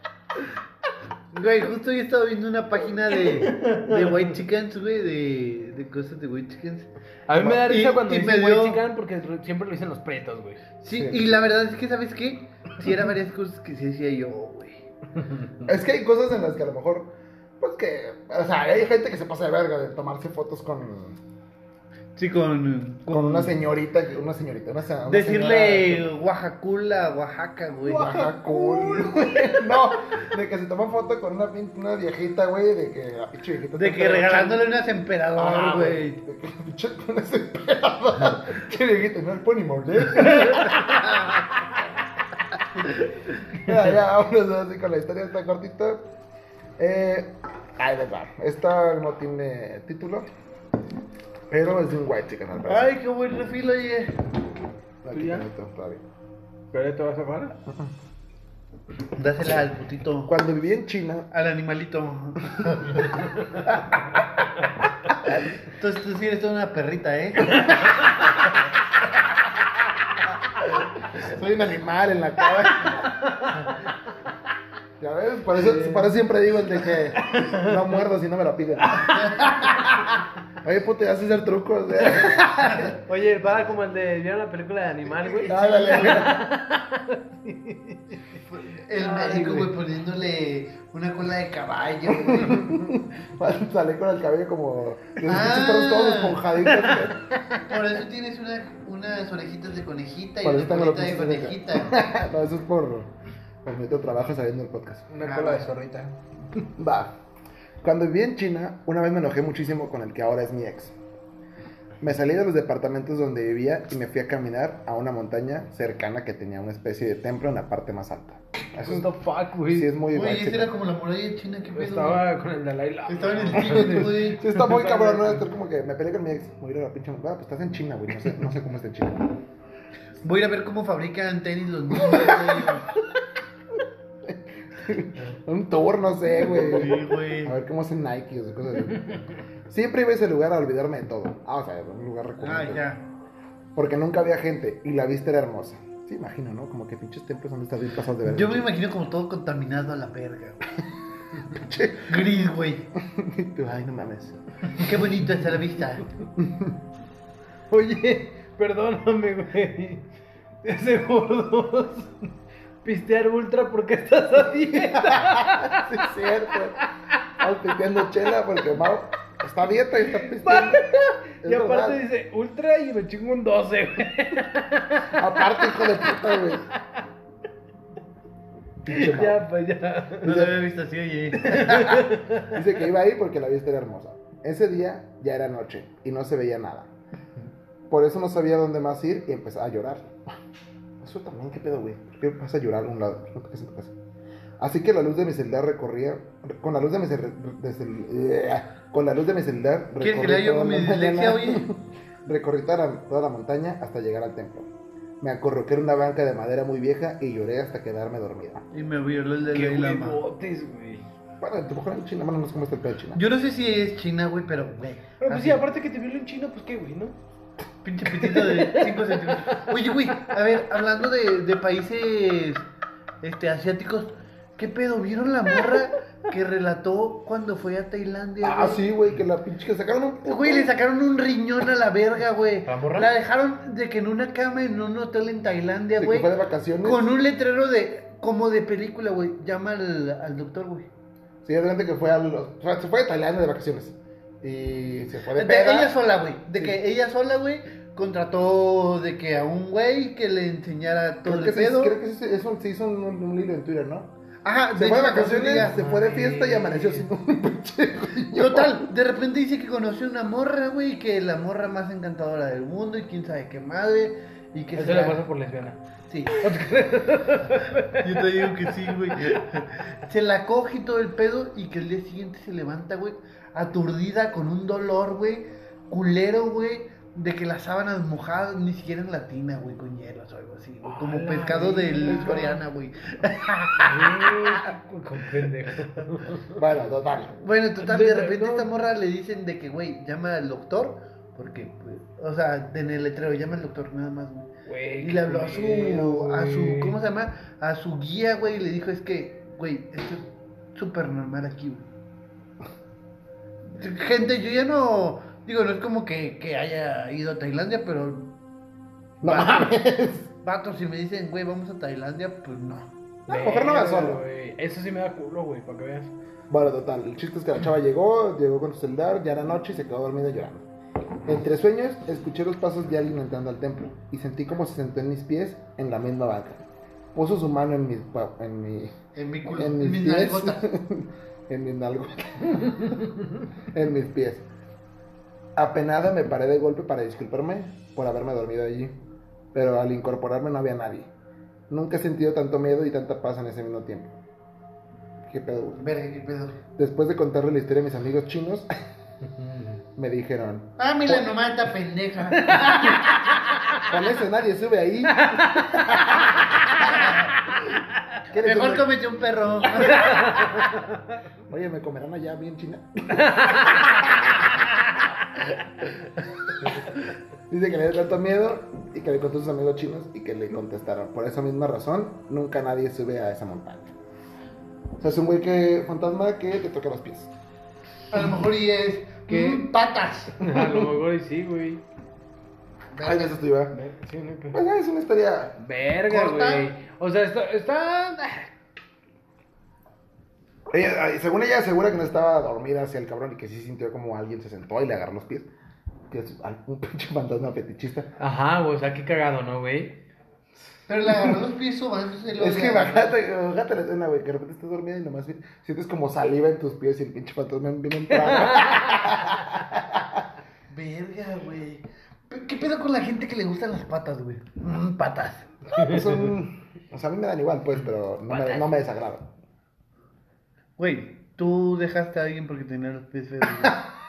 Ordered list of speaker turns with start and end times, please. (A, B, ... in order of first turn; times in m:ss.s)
0:01.3-0:06.9 A
0:03.3-0:04.2 B
0:07.3-0:10.6 B
0:07.4-0:08.8 A
0:10.8-0:14.8 A
0:10.9-0:11.4 C
0:15.6-0:21.2 C
0:22.2-0:23.6 A
0:23.1-0:26.1 C
0:25.1-0:28.3 A
0:27.9-0:34.6 C
0:27.9-0:29.5 B
0:33.8-0:36.2 A
0:35.4-0:41.4 C
0:40.3-0:41.0 B
0:42.8-0:46.0 C
0:46.8-0:50.3 C
0:51.5-0:52.9 C
0:52.6-0:54.2 A
0:55.0-0:56.0 C
0:55.1-0:55.5 B
0:56.7-0:57.6 B
0:59.1-1:00.3 A
1:00.3-1:01.3 C
1:01.3-1:03.7 A
1:05.6-1:08.3 A
1:11.0-1:13.1 C
1:13.1-1:13.8 B
1:15.0-1:19.2 C
1:15.6-1:16.1 B
1:17.2-1:17.8 B
1:18.9-1:19.2 B
1:19.0-1:19.9 A
1:20.6-1:22.5 C
1:22.6-1:28.4 B
1:25.2-1:26.3 A
1:25.5-1:26.4 C
1:28.5-1:32.7 A
1:28.9-1:29.7 B
1:32.1-1:37.2 C
1:35.2-1:36.4 A
1:36.7-1:37.6 B
1:37.6-1:42.0 A
1:40.4-1:43.1 C
1:43.6-1:45.1 C
1:45.1-1:46.2 B
1:45.2-1:45.7 A
1:46.8-1:47.2 C
1:47.8-1:51.0 C
1:52.0-1:59.1 C
1:58.8-1:59.9 B
1:59.7-2:00.8 C
2:00.1-2:02.2 A
2:01.8-2:05.4 B
2:03.1-2:04.6 A
2:04.1-2:09.3 C
2:10.2-2:12.9 A
2:12.0-2:12.8 C
2:14.3-2:22.9 C
2:16.4-2:17.6 A
2:22.4-2:23.0 A
2:23.8-2:28.7 C
2:28.2-2:30.8 A
2:31.5-2:32.2 C
2:32.1-2:32.8 A
2:33.0-2:34.4 C
2:34.8-2:36.1 A
2:36.4-2:36.8 C
2:37.7-2:40.1 B
2:40.6-2:42.3 B
2:42.8-2:46.0 B
2:45.2-2:46.8 C
2:46.5-2:47.2 B
2:47.4-2:50.9 C
2:50.1-2:56.6 B
2:51.4-2:52.0 C
2:55.2-2:56.7 C
2:58.8-2:59.5 C
2:58.9-3:00.5 B
3:00.2-3:02.1 A
3:01.4-3:02.6 B
3:02.5-3:06.9 C
3:07.9-3:10.1 C
3:11.0-3:14.0 C
3:14.6-3:24.7 C
3:20.0-3:21.7 A
3:25.2-3:28.6 C
3:28.7-3:30.2 A
3:29.5-3:31.0 B
3:31.4-3:33.2 C
3:33.2-3:35.6 A
3:35.2-3:37.2 B
3:37.8-3:42.7 A
3:38.1-3:39.8 B
3:43.2-3:48.9 A
3:48.4-3:50.7 C
3:50.2-3:56.3 A
3:52.7-3:53.1 B
3:56.0-3:57.2 C
3:56.8-4:00.9 A
4:01.4-4:05.9 C
4:05.4-4:12.0 A
4:11.3-4:14.1 C
4:14.4-4:15.7 A
4:14.8-4:18.9 C
4:15.6-4:17.1 B
4:18.4-4:25.2 A
4:24.8-4:28.0 B
4:26.1-4:26.4 A
4:28.0-4:44.6 A
4:40.8-4:42.6 B
4:42.1-4:42.5 C
4:43.8-4:46.6 B
4:46.6-4:47.4 C
4:47.4-5:00.2 A
4:47.8-4:48.7 B
4:54.7-4:57.0 B
5:00.8-5:01.9 A
5:03.7-5:08.4 A
5:09.2-5:09.8 A
5:09.2-5:10.3 C
5:10.4-5:12.9 A
5:13.3-5:16.1 B
5:13.3-5:14.2 C
5:16.5-5:20.7 C
5:21.2-5:29.0 C
5:29.2-5:30.7 A
5:29.5-5:33.1 C
5:33.7-5:34.4 C
5:35.6-5:38.9 C
5:39.5-5:41.1 C
5:41.7-5:44.2 C
5:45.2-5:45.8 C
5:45.8-5:46.6 A
5:46.8-5:48.7 C
5:50.0-5:51.3 C
5:50.8-5:53.8 A
5:52.5-5:53.0 B
5:53.9-5:56.5 C
5:55.1-5:57.1 B
5:56.9-5:57.3 A
5:58.3-5:58.9 C
5:58.4-6:00.4 A
5:59.9-6:01.0 B
6:01.5-6:04.6 C
6:03.2-6:03.9 B
6:06.6-6:06.9 C
6:07.5-6:13.9 C
6:15.0-6:17.3 C
6:18.1-6:20.4 A
6:19.3-6:19.7 B
6:20.4-6:21.8 B
6:20.5-6:20.9 C
6:23.0-6:23.3 A
6:23.0-6:23.8 C
6:23.7-6:24.6 B
6:24.5-6:25.6 C
6:25.6-6:28.5 B
6:26.1-6:26.7 A
6:30.7-6:35.5 C
6:36.1-6:38.1 C
6:38.2-6:40.0 B
6:40.9-6:43.2 A
6:42.4-6:50.2 C
6:48.1-6:49.3 B
6:50.7-6:55.5 A
6:55.8-6:56.3 B
6:55.9-6:59.3 C
6:58.3-6:58.8 B
7:00.8-7:03.8 A